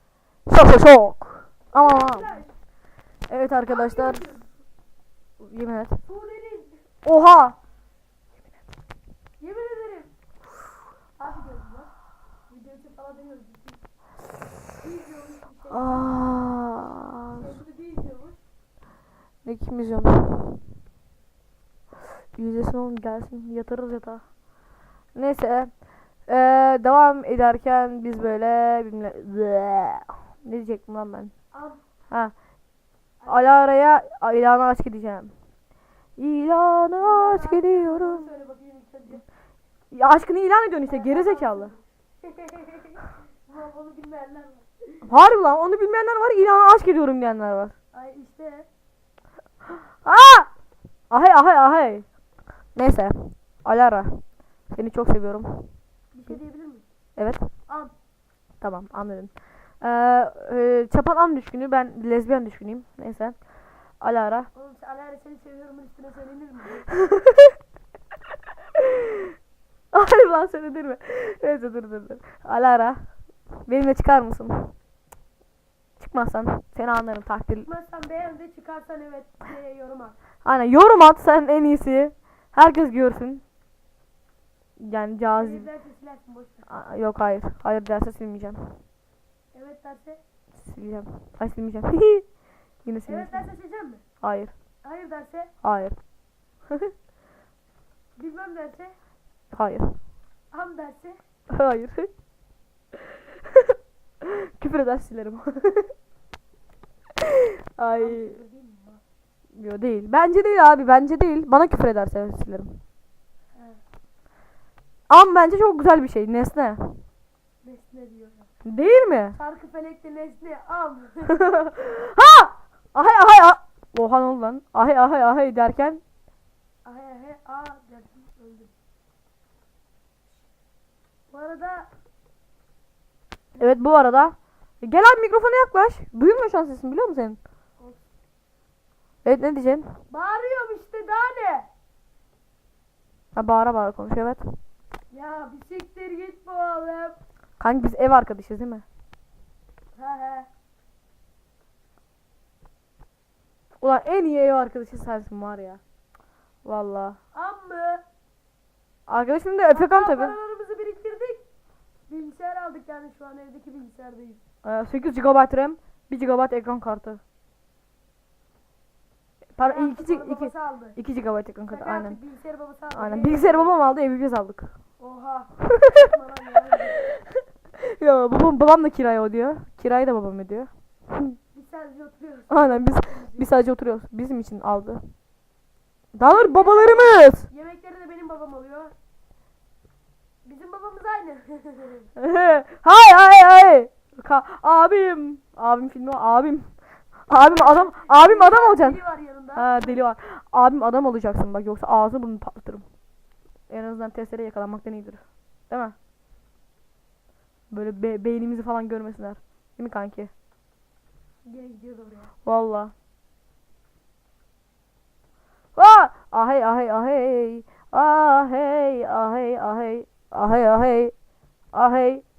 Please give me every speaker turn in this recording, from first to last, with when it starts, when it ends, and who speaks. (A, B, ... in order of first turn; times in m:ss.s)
0:00.5-0:02.3 A
0:01.7-0:02.5 B
0:03.3-0:04.2 A
0:03.7-0:04.5 B
0:05.4-0:06.0 A
0:06.0-0:06.8 B
0:07.0-0:07.6 A
0:09.4-0:10.1 B
0:11.2-0:11.9 B
0:12.5-0:13.8 B
0:14.8-0:18.4 B
0:15.7-0:17.4 A
0:19.4-0:20.6 A
0:22.3-0:24.2 A
0:25.1-0:31.3 A
0:31.5-0:31.8 B
0:33.2-0:33.6 B
0:33.2-0:35.3 A
0:36.2-0:38.3 A
0:37.0-0:39.2 B
0:39.9-0:41.7 A
0:40.8-0:45.1 B
0:45.0-0:47.7 A
0:47.9-0:48.7 B
0:50.0-0:50.5 A
0:51.1-0:52.0 A
0:52.7-0:55.7 A
0:56.1-0:56.8 B
0:57.2-0:57.5 A
0:57.7-0:57.9 B
0:58.6-1:04.5 A
1:04.5-1:06.9 B
1:09.9-1:14.7 A
1:16.0-1:17.7 A
1:17.6-1:20.2 B
1:20.4-1:23.4 A
1:24.8-1:25.7 A
1:25.4-1:26.7 B
1:26.7-1:28.8 A
1:29.5-1:30.2 B
1:30.5-1:33.5 A
1:33.0-1:34.0 B
1:34.2-1:34.5 A
1:34.8-1:35.5 B
1:35.6-1:36.0 A
1:38.2-1:39.0 B
1:39.5-1:40.0 A
1:40.5-1:41.2 B
1:41.5-1:42.1 A
1:44.2-1:45.9 A
1:47.8-1:48.4 A
1:47.9-1:49.0 B
1:49.5-1:52.8 A
1:53.5-1:53.8 B
1:55.1-1:57.0 A
1:57.6-2:01.6 B
1:58.6-1:59.4 A
2:01.6-2:06.0 A
2:06.8-2:08.7 B
2:11.3-2:11.9 B
2:13.6-2:17.4 A
2:17.8-2:18.0 B
2:19.2-2:20.0 A
2:20.1-2:21.7 B
2:23.3-2:24.6 A
2:25.1-2:27.2 B
2:27.6-2:28.8 A
2:29.9-2:30.5 B
2:33.8-2:35.8 A
2:36.6-2:37.2 A
2:37.3-2:38.0 B
2:39.1-2:40.4 A
2:39.7-2:41.4 B
2:42.1-2:44.4 B
2:44.6-2:47.2 A
2:49.6-2:52.2 A
2:49.6-2:51.0 B
2:51.7-2:53.7 B
2:52.9-2:54.7 A
2:55.0-2:57.0 B
2:58.0-3:01.4 A
3:01.5-3:03.5 B
3:02.5-3:05.1 A
3:06.1-3:07.5 A
3:06.2-3:08.9 B
3:10.4-3:12.6 B
3:12.2-3:19.0 A
3:17.4-3:20.0 B
3:19.5-3:22.8 A
3:23.7-3:25.9 A
3:27.7-3:30.3 A
3:31.4-3:32.3 B
3:32.4-3:32.9 A
3:35.7-3:41.1 A
3:41.7-3:42.2 A